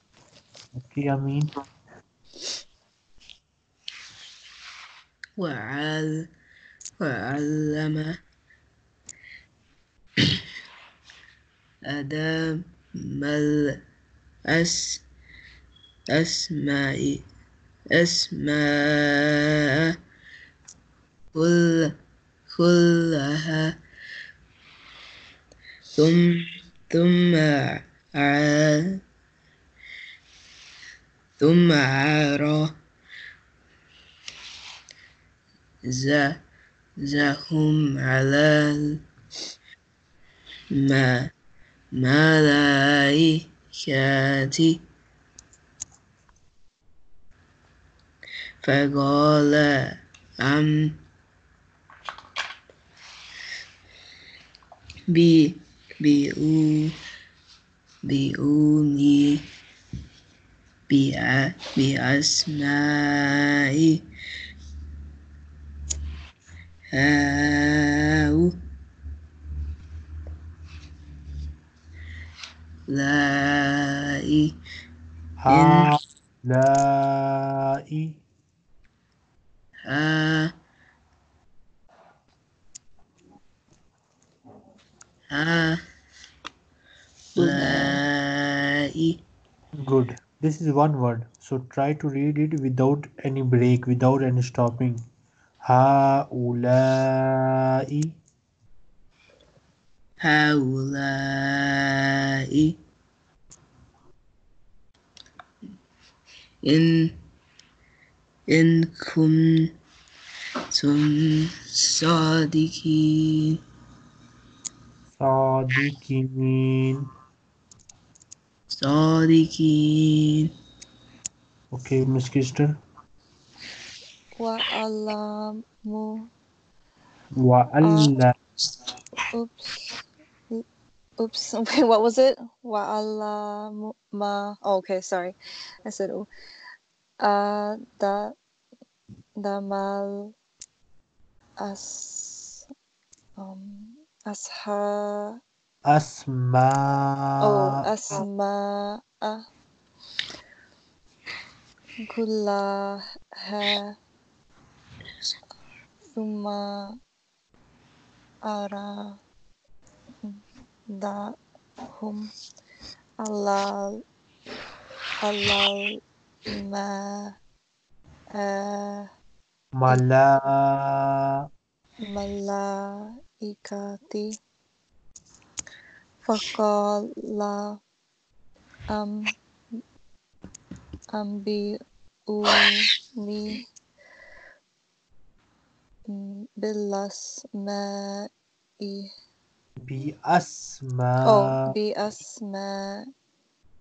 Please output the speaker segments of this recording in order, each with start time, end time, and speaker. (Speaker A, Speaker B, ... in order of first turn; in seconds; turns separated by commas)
Speaker A: 0.7-1.5, Speaker B: 5.4-6.3, Speaker B: 7.0-8.2, Speaker B: 11.8-13.8, Speaker B: 14.4-15.0, Speaker B: 16.1-17.2, Speaker B: 17.9-20.0, Speaker B: 21.3-21.9, Speaker B: 22.5-23.8, Speaker B: 25.9-29.0, Speaker B: 31.4-32.7, Speaker B: 35.8-36.4, Speaker B: 37.0-39.0, Speaker B: 40.7-41.3, Speaker B: 41.9-44.8, Speaker B: 48.6-51.0, Speaker B: 55.1-57.0, Speaker B: 58.0-59.5, Speaker B: 60.9-64.0, Speaker B: 66.9-68.6, Speaker B: 72.9-74.6, Speaker A: 75.4-78.2, Speaker B: 75.5-75.9, Speaker B: 79.8-80.5, Speaker B: 85.3-85.8, Speaker A: 87.3-88.0, Speaker B: 87.3-89.2, Speaker A: 89.8-95.0, Speaker A: 95.6-98.2, Speaker B: 100.2-102.8, Speaker B: 106.6-107.2, Speaker B: 108.5-109.7, Speaker B: 110.7-113.6, Speaker A: 115.2-117.0, Speaker B: 118.7-120.5, Speaker A: 121.7-122.8, Speaker C: 124.4-126.3, Speaker A: 127.4-128.3, Speaker C: 127.8-128.1, Speaker C: 129.3-129.9, Speaker C: 131.2-135.3, Speaker C: 135.8-136.3, Speaker C: 137.2-138.3, Speaker C: 139.4-140.3, Speaker C: 141.6-142.6, Speaker C: 143.4-145.4, Speaker A: 145.8-147.8, Speaker C: 147.4-149.4, Speaker C: 152.1-153.9, Speaker C: 156.1-157.0, Speaker C: 158.4-159.2, Speaker C: 160.2-161.3, Speaker C: 161.9-162.3, Speaker C: 163.2-164.0, Speaker C: 165.2-165.9, Speaker C: 166.5-167.3, Speaker C: 168.3-169.1, Speaker A: 169.8-171.2, Speaker C: 172.1-174.3, Speaker C: 176.2-177.8, Speaker C: 178.9-179.3, Speaker C: 181.1-183.7, Speaker C: 186.1-188.3, Speaker C: 188.8-189.1, Speaker A: 189.8-191.7, Speaker C: 191.2-193.1